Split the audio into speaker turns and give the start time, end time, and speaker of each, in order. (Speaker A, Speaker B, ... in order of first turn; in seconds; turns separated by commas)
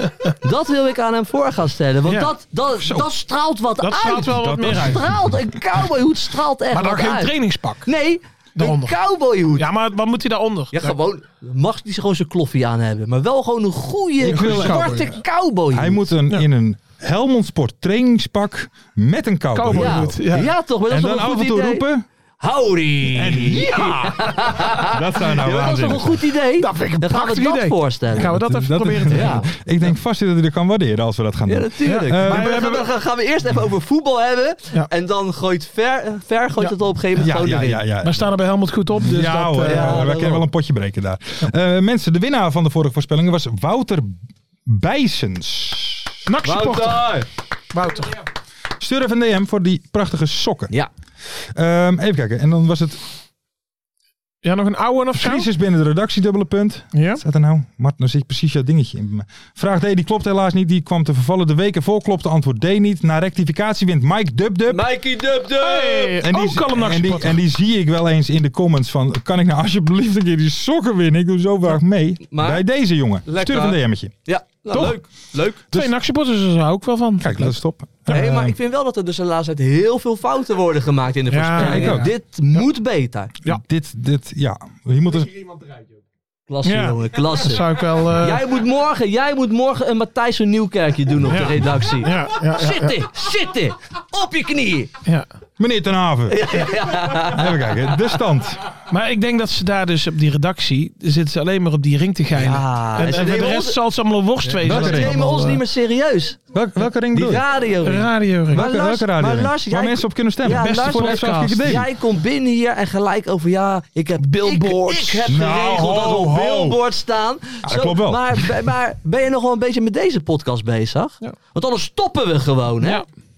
Speaker A: 0.2-7.3, Speaker B: 2.0-2.3, Speaker C: 2.8-3.1, Speaker B: 3.8-5.1, Speaker C: 4.0-5.9, Speaker B: 6.7-7.9, Speaker A: 7.8-9.7, Speaker B: 8.6-9.0, Speaker B: 9.5-10.9, Speaker A: 10.7-16.1, Speaker B: 14.2-15.2, Speaker C: 14.2-15.0, Speaker C: 15.7-20.3, Speaker B: 19.5-20.5, Speaker A: 19.7-21.9, Speaker C: 20.9-22.0, Speaker A: 22.4-28.3, Speaker C: 23.1-26.2, Speaker B: 26.6-29.4, Speaker C: 28.1-32.5, Speaker A: 29.1-29.5, Speaker A: 31.5-37.8, Speaker B: 31.8-32.9, Speaker C: 37.2-38.3, Speaker B: 38.0-40.1, Speaker C: 39.0-46.1, Speaker A: 39.6-40.4, Speaker B: 46.2-48.1, Speaker A: 46.4-47.3, Speaker C: 48.8-50.7, Speaker C: 51.3-53.0, Speaker B: 54.4-55.5, Speaker C: 55.1-64.8, Speaker B: 56.9-57.2, Speaker A: 64.7-66.2, Speaker B: 65.6-67.3, Speaker C: 66.2-74.1, Speaker A: 72.3-72.6, Speaker A: 73.2-75.6, Speaker B: 74.7-75.0, Speaker B: 75.7-78.2, Speaker C: 77.2-78.5, Speaker A: 78.1-83.3, Speaker B: 81.3-82.1, Speaker C: 81.5-82.1, Speaker C: 83.4-85.5, Speaker A: 86.5-94.9, Speaker B: 86.6-88.5, Speaker B: 91.3-92.9, Speaker C: 95.6-98.6, Speaker A: 96.3-97.7, Speaker B: 98.9-105.6, Speaker A: 102.3-103.8, Speaker A: 104.4-106.4, Speaker C: 104.6-105.1, Speaker C: 106.5-107.4, Speaker A: 107.1-123.0, Speaker B: 107.8-108.6, Speaker C: 108.5-111.9, Speaker B: 110.5-111.6, Speaker B: 114.2-115.3, Speaker C: 115.3-116.8, Speaker C: 117.6-118.5